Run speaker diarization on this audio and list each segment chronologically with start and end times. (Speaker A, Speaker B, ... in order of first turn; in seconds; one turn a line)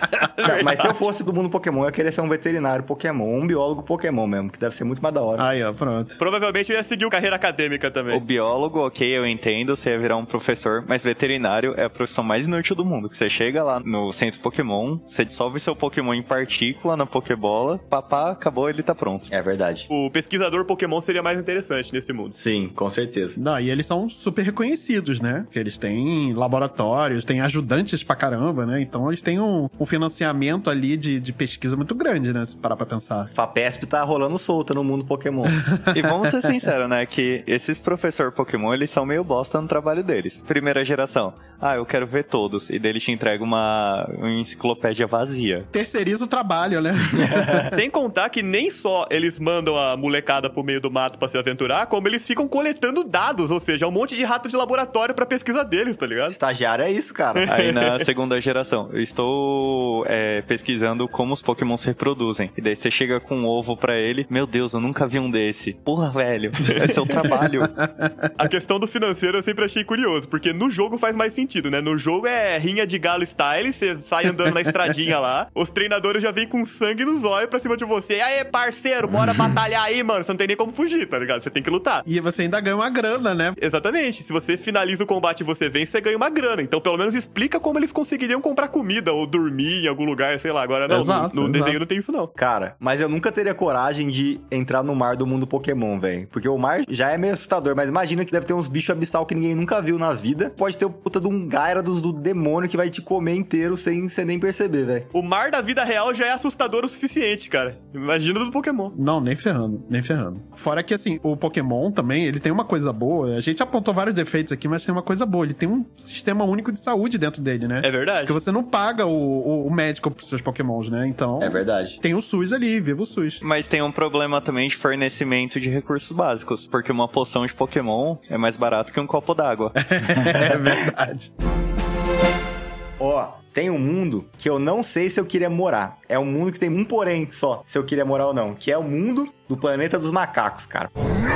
Speaker A: 0.4-1.0
Speaker B: 0.4-5.4
Speaker C: 5.4-6.2
Speaker A: 6.2-8.2
Speaker D: 8.1-19.3
Speaker B: 19.3-19.9
Speaker A: 19.9-22.3
Speaker B: 22.3-23.4
Speaker C: 23.4-33.3
Speaker B: 33.3-35.5
Speaker C: 35.5-36.3
Speaker D: 35.9-45.7
Speaker C: 45.7-47.7
Speaker A: 47.7-56.4
Speaker B: 56.3-57.5
Speaker A: 57.4-58.0
Speaker D: 57.5-67.7
Speaker C: 67.2-68.2
Speaker A: 68.4-82.0
Speaker C: 74.5-74.7
Speaker C: 82.0-83.6
Speaker A: 83.6-92.3
Speaker C: 90.9-91.8
Speaker B: 92.3-105.1
Speaker A: 105.1-108.9
Speaker C: 108.9-123.4
Speaker A: 117.8-118.3
Speaker B: 121.5-122.0
Speaker D: 123.4-129.7
Speaker C: 129.8-131.3
Speaker B: 133.0-140.9